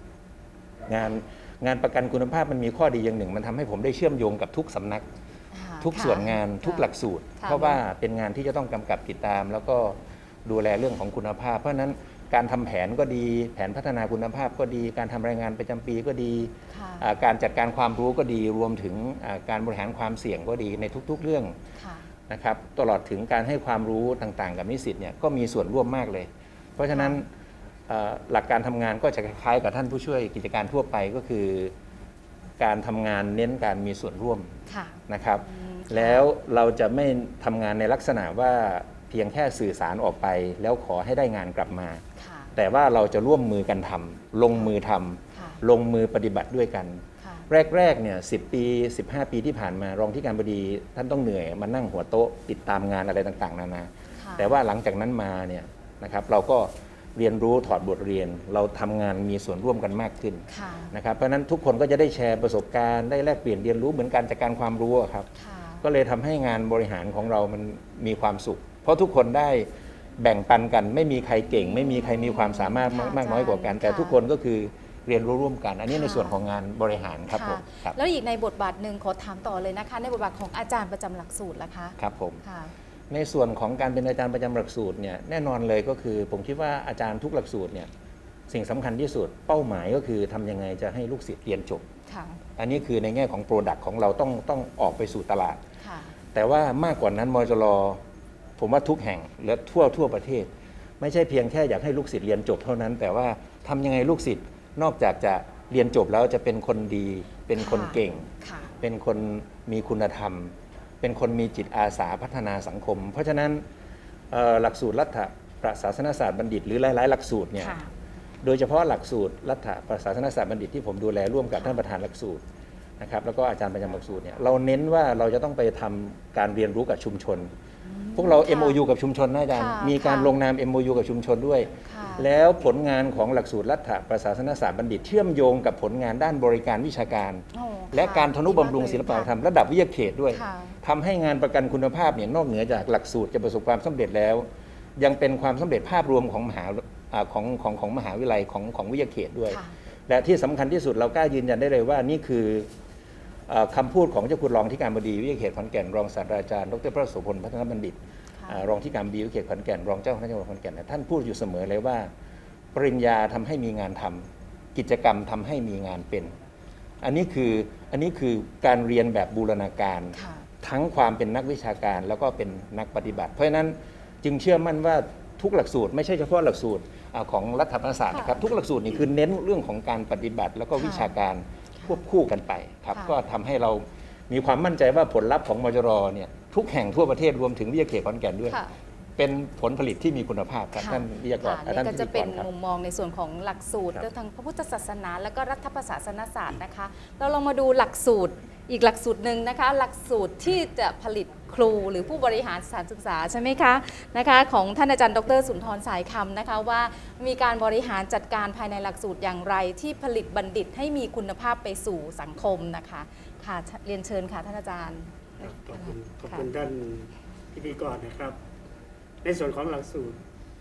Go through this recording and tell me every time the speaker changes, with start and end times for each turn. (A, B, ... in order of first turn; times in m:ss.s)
0:00.9-0:05.1 A
0:05.5-0:07.8 B
0:05.8-0:21.5 A
0:16.7-0:17.1 B
0:21.8-0:22.1 B
0:22.3-0:27.3 A
0:26.9-0:27.2 B
0:27.9-0:31.7 A
0:32.6-0:34.5 A
0:34.7-0:36.3 B
0:35.1-0:42.0 A
0:42.2-0:42.5 B
0:42.5-1:05.3 A
0:45.3-0:45.6 B
0:47.2-0:47.5 B
0:54.2-0:54.5 B
1:00.5-1:00.9 B
1:05.4-1:05.8 B
1:05.8-1:18.0 A
1:12.0-1:14.2 B
1:15.9-1:16.4 B
1:17.3-1:22.7 B
1:22.0-1:22.4 A
1:23.1-1:27.9 A
1:28.5-1:31.8 A
1:32.1-1:32.4 B
1:32.6-1:35.6 A
1:35.8-1:36.2 B
1:36.3-1:38.0 A
1:38.6-1:53.6 A
1:47.6-1:48.7 B
1:54.3-1:57.8 A
1:57.6-1:57.9 B
1:58.4-2:02.4 A
2:03.0-2:07.5 A
2:07.8-2:08.8 B
2:08.2-2:32.7 A
2:09.5-2:10.3 B
2:11.8-2:12.2 B
2:17.5-2:19.3 B
2:20.3-2:20.8 B
2:29.5-2:29.7 B
2:33.5-2:42.1 A
2:42.7-2:46.3 A
2:47.0-3:08.6 A
2:50.1-2:50.5 B
2:58.1-2:58.4 B
3:00.8-3:01.1 B
3:09.2-3:12.5 A
3:10.8-3:36.5 B
3:35.4-3:38.4 C
3:39.2-3:40.2 C